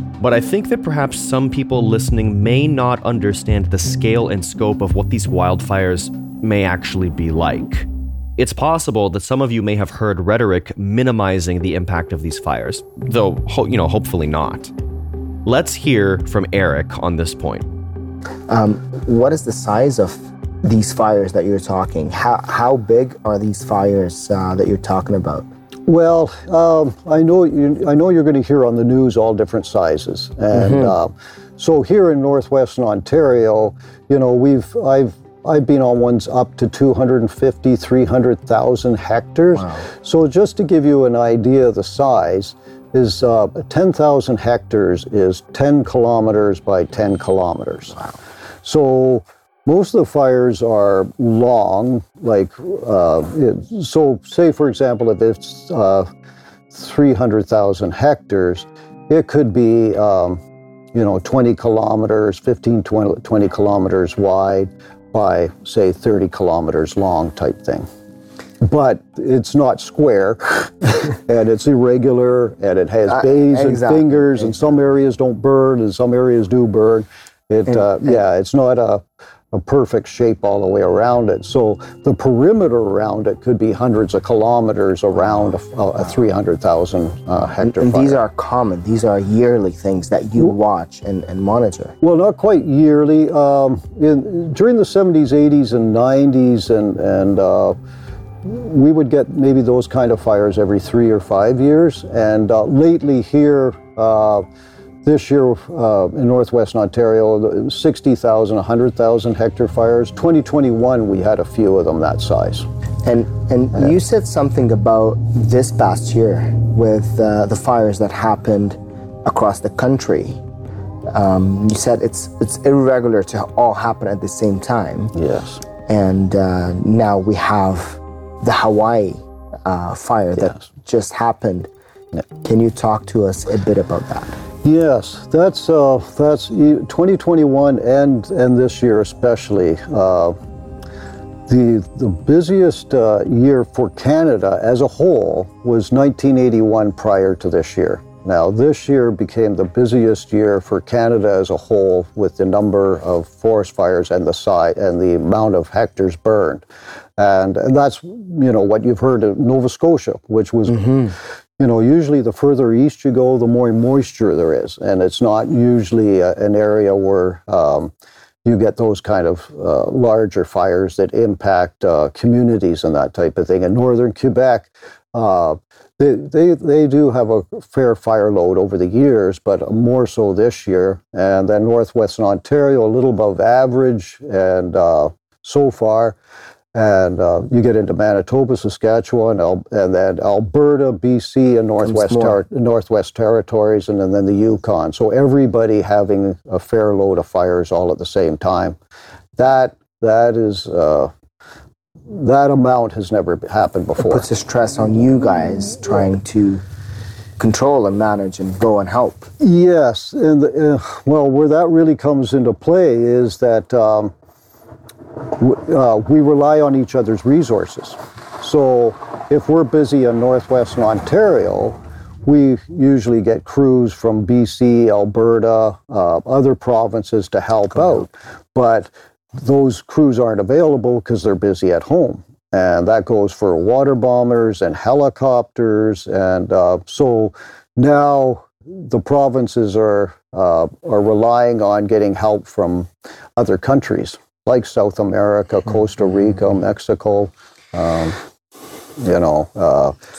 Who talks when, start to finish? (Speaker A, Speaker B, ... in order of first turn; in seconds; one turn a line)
Speaker A: 0.2-14.7
Speaker A: 15.4-17.7
Speaker B: 18.5-25.5
Speaker C: 25.9-48.0
Speaker B: 30.5-30.9
Speaker B: 39.5-39.9
Speaker C: 48.6-56.1
Speaker C: 56.7-60.4
Speaker C: 60.9-67.8
Speaker C: 68.6-88.2
Speaker B: 73.1-74.6
Speaker B: 77.8-78.2
Speaker B: 87.6-91.9
Speaker C: 92.0-97.8
Speaker C: 98.4-104.4
Speaker C: 105.0-112.7
Speaker B: 113.0-120.4
Speaker B: 121.1-125.1
Speaker C: 125.1-125.6
Speaker B: 125.8-131.7
Speaker C: 130.4-130.6
Speaker B: 132.4-134.4
Speaker C: 134.6-140.3
Speaker C: 141.5-156.6
Speaker C: 157.2-167.9
Speaker B: 160.7-161.1
Speaker C: 168.4-186.2
Speaker C: 186.7-198.8
Speaker B: 191.8-192.4
Speaker C: 199.4-201.1
Speaker C: 202.1-204.3
Speaker B: 204.0-206.6
Speaker B: 207.4-209.3
Speaker C: 209.4-214.1
Speaker C: 215.3-248.2
Speaker C: 249.0-249.9